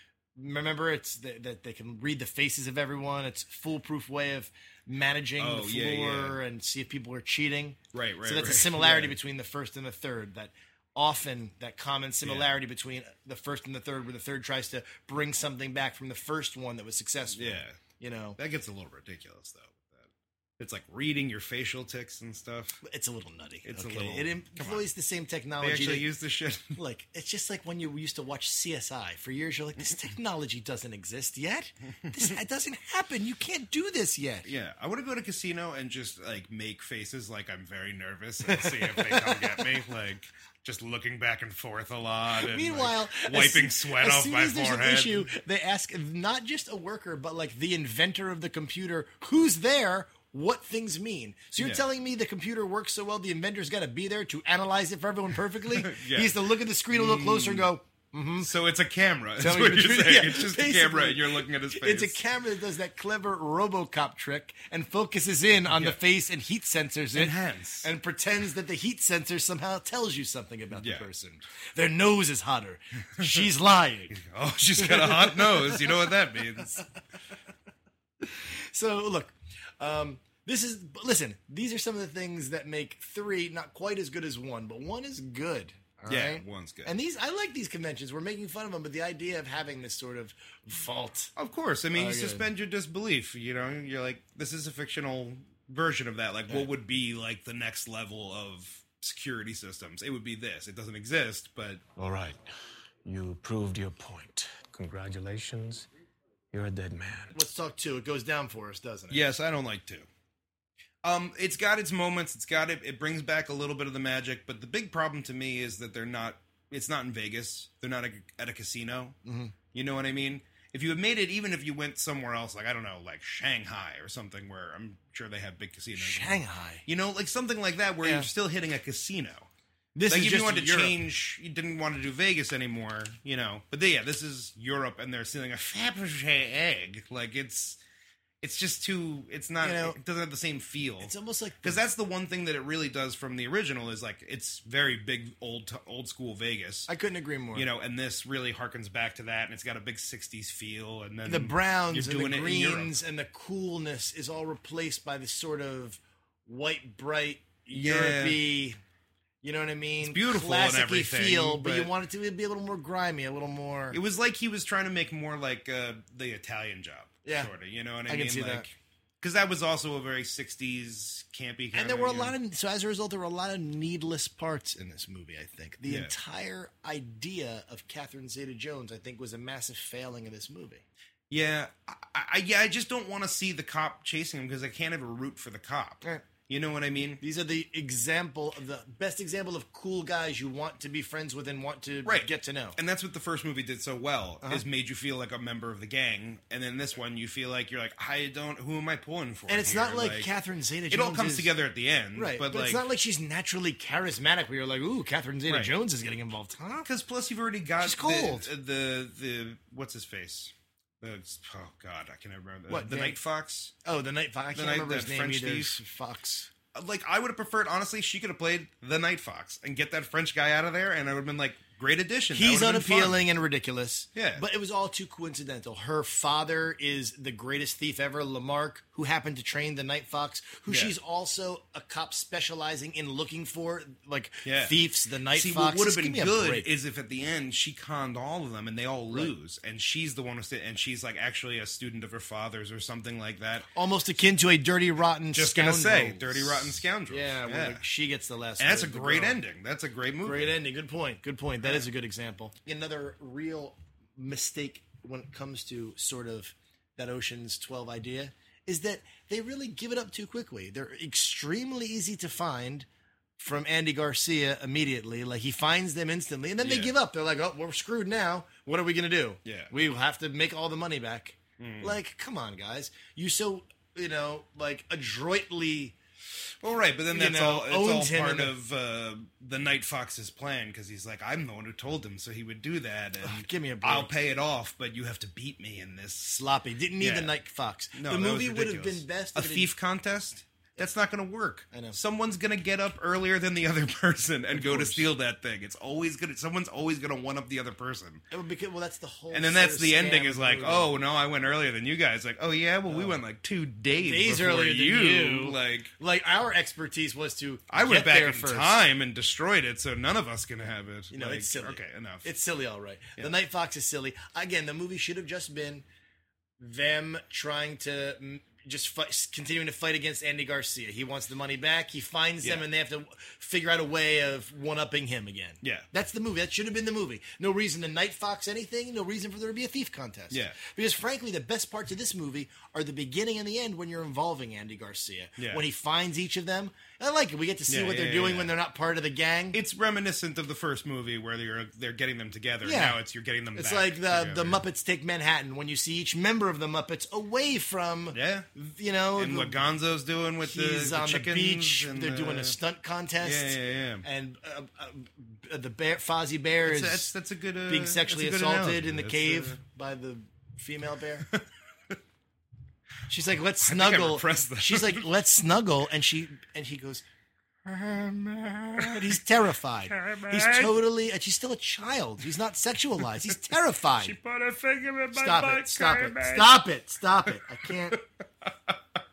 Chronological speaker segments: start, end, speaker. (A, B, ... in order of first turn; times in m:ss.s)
0:00.4-0:18.4 A
0:05.4-0:06.4 B
0:07.9-0:09.2 B
0:12.2-0:12.5 B
0:17.3-0:17.8 B
0:18.4-0:22.8 B
0:22.8-0:26.1 A
0:23.6-0:24.9 B
0:25.6-0:26.8 B
0:26.8-0:34.5 A
0:34.4-0:45.3 B
0:38.5-0:39.7 A
0:42.4-0:58.5 A
0:51.6-0:51.8 B
0:55.6-0:56.4 B
0:56.9-0:57.7 B
0:58.4-1:02.2 B
0:59.4-1:14.2 A
1:05.7-1:06.0 B
1:07.1-1:07.9 B
1:10.7-1:11.1 B
1:13.2-1:13.5 B
1:14.1-1:16.8 B
1:14.8-1:16.1 A
1:18.2-1:31.3 A
1:26.1-1:26.9 B
1:31.4-1:41.8 B
1:31.9-1:32.5 A
1:42.0-1:42.4 C
1:43.0-1:45.9 C
1:46.5-1:47.4 C
1:47.3-1:49.3 A
1:49.1-1:50.1 B
1:51.0-1:59.2 B
1:59.2-1:59.5 A
1:59.7-2:09.5 B
2:06.0-2:06.8 A
2:08.0-2:08.3 A
2:10.0-2:11.0 A
2:10.1-2:17.8 B
2:18.4-2:26.9 B
2:19.6-2:20.0 A
2:21.0-2:21.8 A
2:26.9-2:27.7 A
2:27.5-2:33.0 B
2:31.3-2:38.8 A
2:37.7-2:38.4 B
2:39.4-2:44.0 A
2:40.0-2:41.9 B
2:43.9-2:52.4 B
2:47.2-2:47.5 A
2:48.1-2:48.7 A
2:51.7-3:00.8 A
2:55.8-2:56.1 B
3:01.3-3:07.2 B
3:07.2-3:12.8 A
3:12.0-3:20.3 B
3:19.5-3:21.5 A
3:20.9-3:22.8 B
3:22.1-3:26.9 A
3:25.5-3:25.7 B
3:26.8-3:33.7 B
3:27.8-3:28.5 A
3:32.7-3:33.2 A
3:33.8-3:36.5 A
3:34.6-3:35.8 B
3:36.7-3:43.2 B
3:42.3-3:56.7 A
3:44.1-3:44.4 B
3:50.7-3:50.9 B
3:54.4-3:54.8 B
3:55.3-4:03.7 B
4:03.7-4:09.4 A
4:05.3-4:07.8 B
4:08.6-4:10.6 B
4:10.2-4:22.9 A
4:23.4-4:36.0 A
4:26.6-4:26.9 B
4:29.4-4:29.7 B
4:31.6-4:32.0 B
4:36.6-4:46.4 B
4:37.1-4:38.5 A
4:43.2-4:44.1 A
4:46.3-4:49.7 A
4:47.0-4:47.3 B
4:47.9-4:58.2 B
4:51.7-4:52.0 A
4:54.5-4:55.1 A
4:58.3-5:01.0 A
4:59.3-5:05.9 B
5:02.9-5:03.2 A
5:04.0-5:08.8 A
5:07.7-5:12.3 B
5:11.1-5:15.8 A
5:16.6-5:39.6 A
5:22.4-5:22.7 B
5:25.6-5:25.9 B
5:30.3-5:30.6 B
5:35.4-5:35.6 B
5:37.7-5:38.5 B
5:39.5-5:44.6 B
5:42.6-5:43.0 A
5:43.5-5:49.6 A
5:48.1-5:48.5 B
5:49.1-5:52.6 B
5:50.4-5:57.1 A
5:53.2-5:54.0 B
5:56.6-5:59.6 B
5:57.7-6:01.3 A
6:01.2-6:02.0 B
6:03.1-6:07.0 A
6:03.6-6:05.1 B
6:07.6-6:14.2 A
6:08.7-6:09.2 B
6:09.9-6:10.8 B
6:13.0-6:13.4 B
6:14.0-6:16.6 B
6:15.1-6:18.0 A
6:17.2-6:19.0 B